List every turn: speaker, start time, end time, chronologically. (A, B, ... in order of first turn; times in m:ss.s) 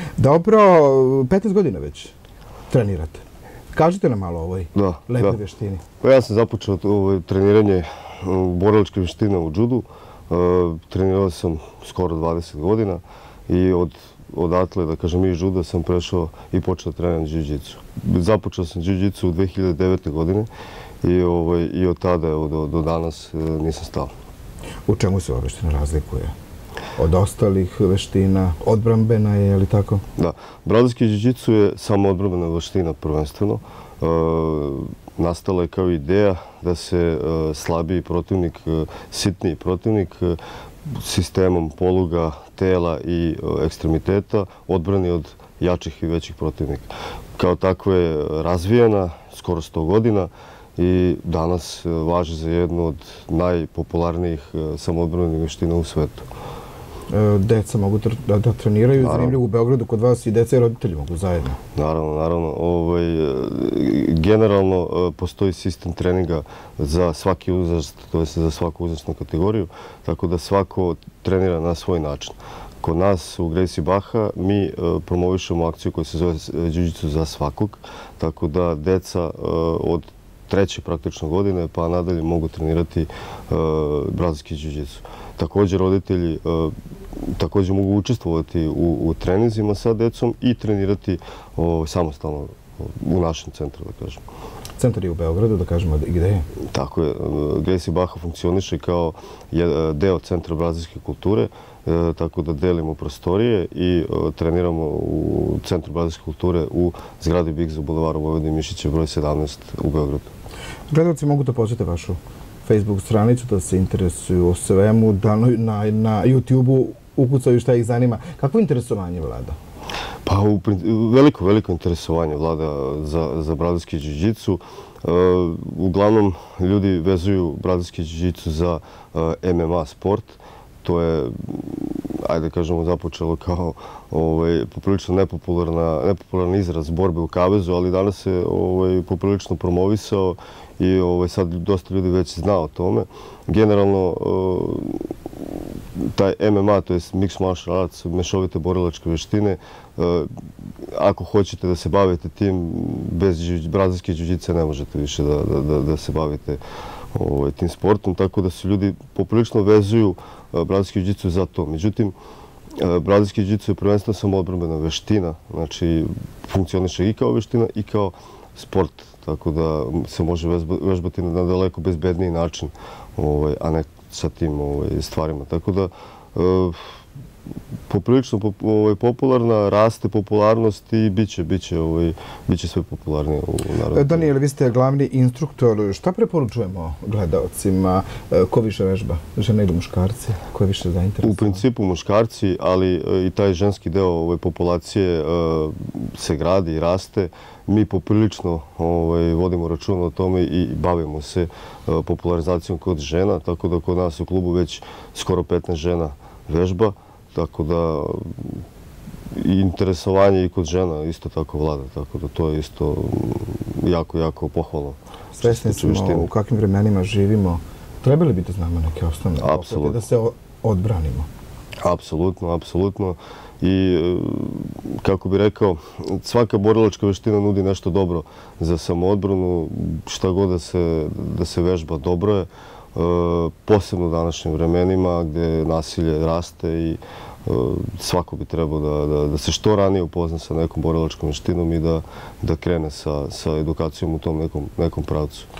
0:00.2-0:02.1 A
0:02.7-0:03.2 A
0:03.7-0:05.8 A
0:04.7-0:05.4 B
0:06.0-0:20.5 B
0:21.0-0:24.1 B
0:24.9-0:26.3 A
0:27.0-0:30.0 A
0:30.2-0:40.4 B
0:40.9-0:56.2 B
0:57.1-1:01.6 A
0:59.0-0:59.4 B
1:01.8-1:34.2 B
1:34.8-1:36.5 A
1:36.7-1:50.3 B
1:50.9-1:59.6 A
2:00.2-2:30.3 B
2:30.9-2:36.6 B
2:37.1-2:42.1 B
2:42.8-2:56.9 B
2:57.9-3:04.3 B
3:03.9-3:11.6 A
3:11.2-3:28.6 B
3:29.3-3:36.3 B
3:35.3-3:41.3 A
3:39.4-3:40.0 B
3:41.8-4:05.5 B